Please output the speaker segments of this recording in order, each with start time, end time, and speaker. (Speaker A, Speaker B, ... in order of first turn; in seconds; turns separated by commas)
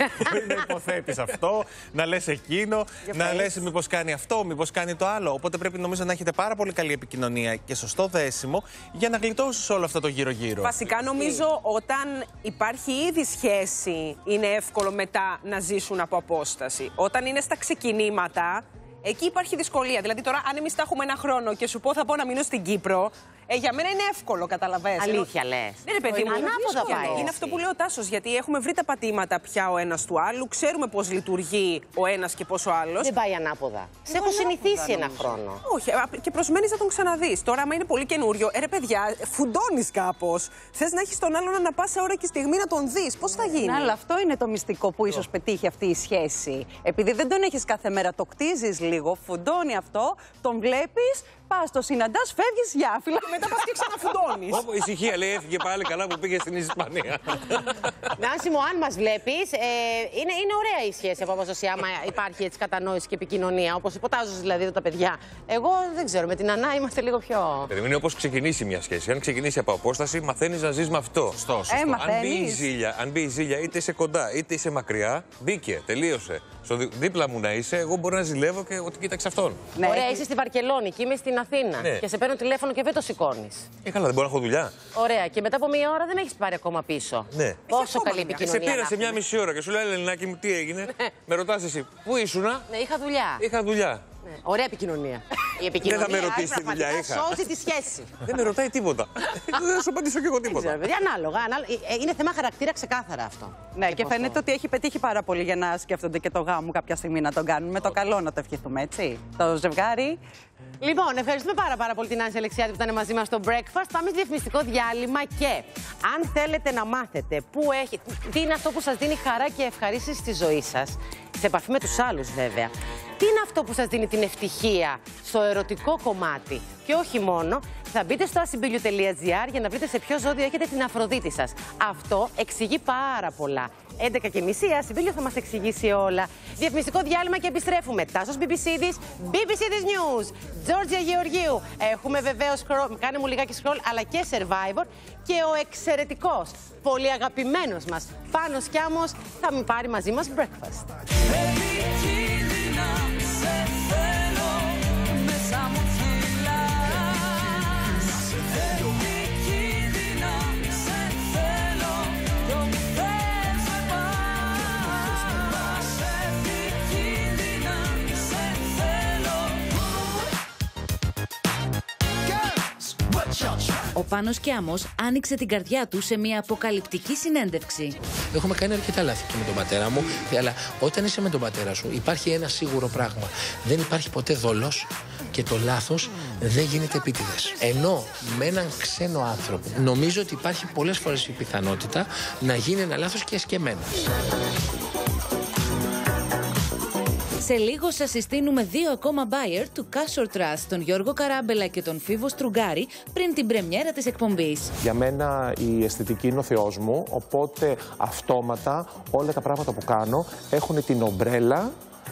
Speaker A: 0.2-10.9, Speaker B: 3.1-3.5, Speaker C: 10.6-25.3, Speaker D: 25.0-27.6, Speaker C: 25.8-33.1, Speaker D: 33.0-35.6, Speaker C: 34.1-35.0, Speaker C: 35.6-43.9, Speaker B: 43.4-53.4, Speaker C: 53.2-54.6, Speaker E: 54.5-58.1, Speaker D: 58.2-67.7, Speaker E: 67.7-79.7, Speaker B: 71.7-72.7, Speaker B: 79.8-80.2, Speaker D: 79.8-83.7, Speaker E: 83.8-84.8, Speaker D: 84.9-89.2, Speaker E: 87.3-87.7, Speaker C: 87.7-88.4, Speaker E: 88.3-92.7, Speaker D: 92.7-93.4, Speaker E: 93.4-94.0, Speaker D: 94.3-98.2, Speaker E: 95.8-97.4, Speaker E: 98.2-100.8, Speaker D: 100.5-104.4, Speaker B: 103.7-110.2, Speaker D: 110.8-150.9, Speaker F: 173.9-177.9, Speaker G: 178.3-193.9, Speaker F: 197.4-204.7, Speaker H: 204.8-211.7